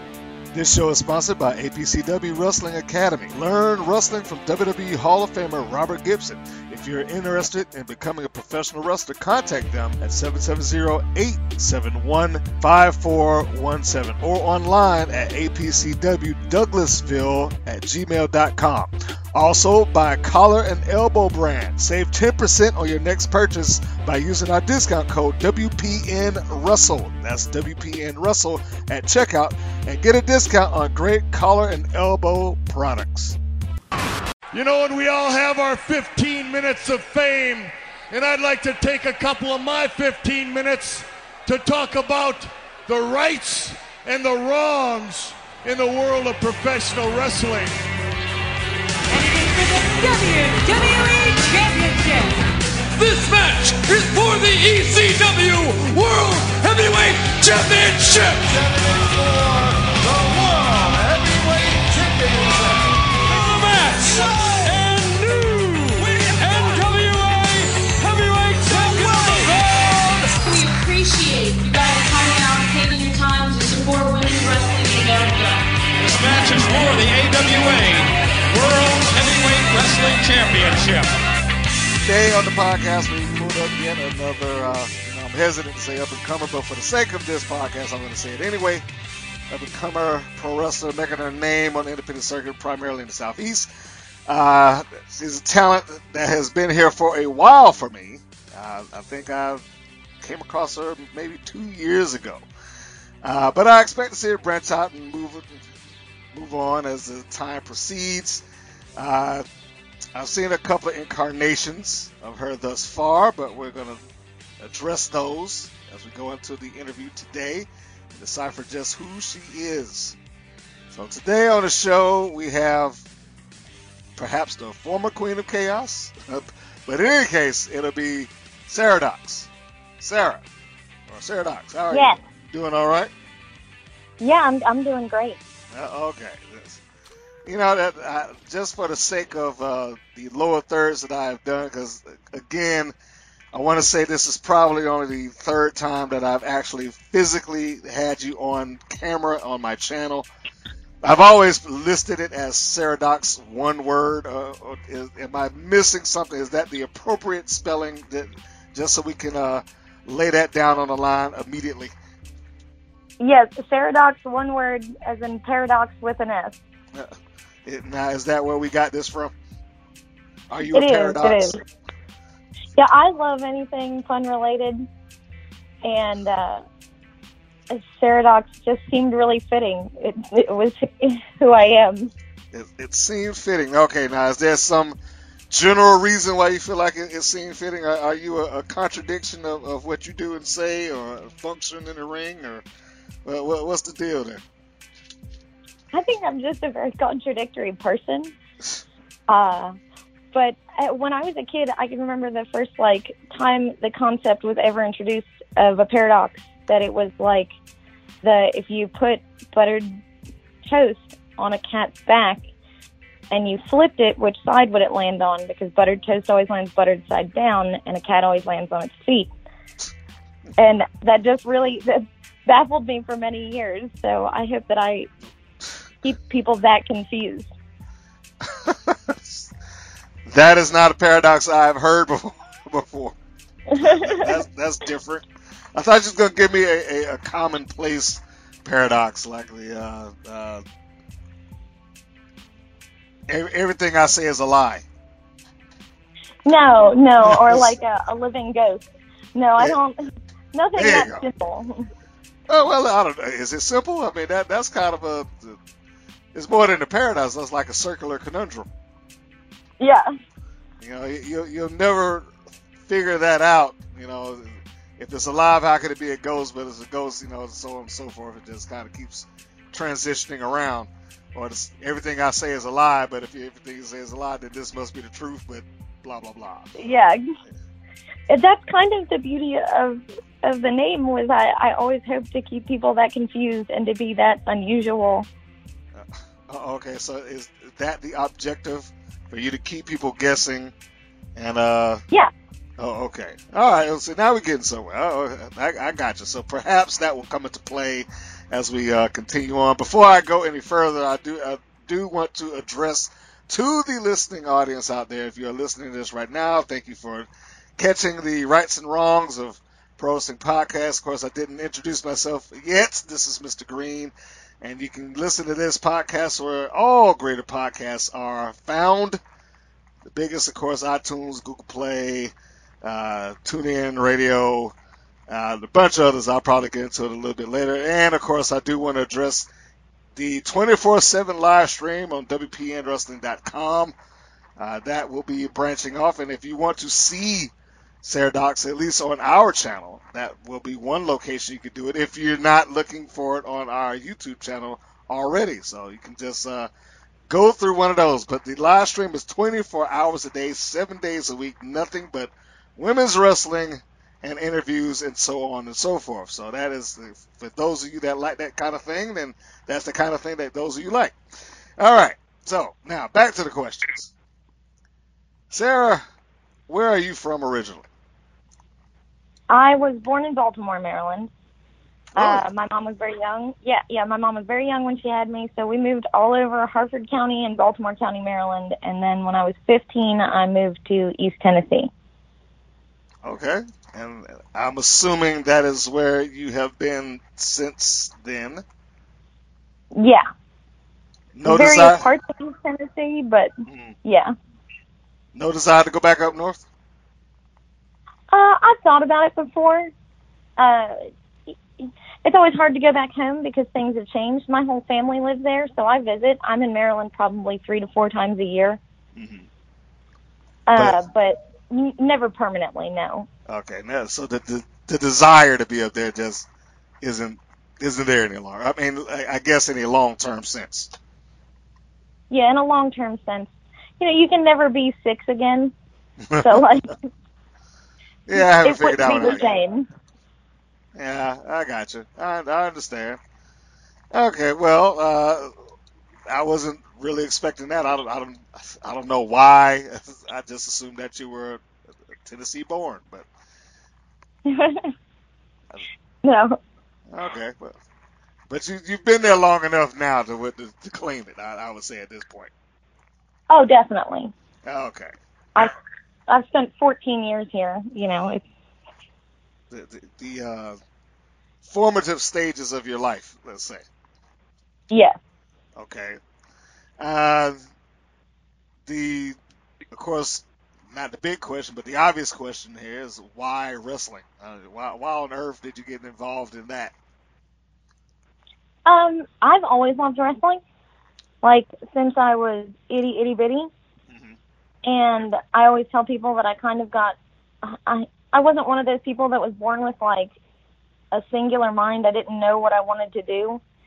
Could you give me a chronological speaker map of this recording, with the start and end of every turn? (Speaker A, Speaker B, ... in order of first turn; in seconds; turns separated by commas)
Speaker A: 0.5-33.4, Speaker B: 34.5-47.8, Speaker C: 49.2-52.4, Speaker B: 52.9-58.9, Speaker B: 60.5-61.8, Speaker D: 62.0-62.6, Speaker B: 63.2-70.3, Speaker C: 70.3-75.7, Speaker D: 76.0-81.1, Speaker A: 82.0-88.8, Speaker A: 89.5-93.7, Speaker A: 94.3-99.6, Speaker A: 100.2-102.4, Speaker A: 103.2-105.6, Speaker A: 106.3-108.4, Speaker A: 109.0-109.4, Speaker A: 110.1-114.0, Speaker A: 114.6-120.2, Speaker A: 120.9-123.0, Speaker A: 124.2-129.5, Speaker A: 130.0-130.4, Speaker A: 131.1-133.1, Speaker E: 131.9-132.2, Speaker E: 134.2-135.4, Speaker A: 135.7-136.8, Speaker A: 137.4-142.9, Speaker A: 143.5-150.3, Speaker A: 151.0-161.9, Speaker E: 163.2-166.6, Speaker A: 166.9-169.3, Speaker A: 170.5-171.6, Speaker E: 170.7-171.5, Speaker E: 172.8-174.8, Speaker E: 175.8-176.6, Speaker E: 177.7-182.1, Speaker A: 182.5-185.0, Speaker A: 185.5-192.6, Speaker A: 193.2-194.4, Speaker E: 195.9-198.3, Speaker E: 199.3-199.8, Speaker E: 200.3-207.5, Speaker E: 208.2-210.0, Speaker E: 210.6-212.4, Speaker E: 213.3-219.3, Speaker E: 220.6-225.1, Speaker E: 226.0-227.5, Speaker A: 228.4-229.5, Speaker A: 230.2-233.2, Speaker E: 233.8-234.3, Speaker A: 233.8-240.6, Speaker A: 243.3-244.8, Speaker E: 246.4-248.8, Speaker A: 247.2-247.7, Speaker E: 249.3-251.8, Speaker A: 250.8-251.2, Speaker A: 252.5-255.6, Speaker A: 256.3-258.7, Speaker E: 259.8-260.1, Speaker A: 260.8-262.3, Speaker A: 262.8-276.7, Speaker E: 276.8-277.2, Speaker E: 278.3-285.3, Speaker A: 285.9-290.7, Speaker A: 291.3-292.0, Speaker A: 292.8-319.2, Speaker A: 320.1-324.7, Speaker A: 325.3-329.5, Speaker A: 330.1-333.9, Speaker A: 334.6-346.7, Speaker A: 347.3-361.2, Speaker A: 361.8-364.1, Speaker A: 365.5-366.0, Speaker A: 366.7-367.9, Speaker E: 369.5-371.3, Speaker A: 372.1-372.4, Speaker E: 372.1-381.9, Speaker A: 383.2-388.6, Speaker E: 389.9-390.2, Speaker A: 391.3-392.0, Speaker E: 391.4-393.5, Speaker A: 393.7-393.9, Speaker E: 394.0-394.3, Speaker A: 395.3-396.6, Speaker E: 398.3-399.9, Speaker E: 400.6-401.0, Speaker E: 401.5-408.8, Speaker A: 409.1-409.5, Speaker E: 410.7-413.3, Speaker A: 413.5-416.5, Speaker A: 417.0-420.9, Speaker E: 422.3-425.7, Speaker A: 426.2-426.6, Speaker E: 426.4-426.9, Speaker A: 428.3-429.5, Speaker E: 428.3-429.9, Speaker A: 430.9-433.2, Speaker A: 434.1-435.5, Speaker A: 436.3-441.6, Speaker A: 442.1-443.3, Speaker E: 444.4-444.9, Speaker E: 446.2-446.6, Speaker A: 447.1-447.8, Speaker A: 448.5-452.5, Speaker E: 453.5-454.3, Speaker A: 454.6-455.7, Speaker E: 456.3-458.4, Speaker A: 459.7-460.8, Speaker A: 461.6-463.8, Speaker E: 464.9-465.2, Speaker A: 465.8-466.2, Speaker A: 467.0-467.6, Speaker A: 468.9-469.4, Speaker A: 469.9-476.9, Speaker E: 478.9-480.6, Speaker E: 481.4-483.7, Speaker A: 484.1-484.4, Speaker E: 484.9-490.3, Speaker E: 491.1-493.6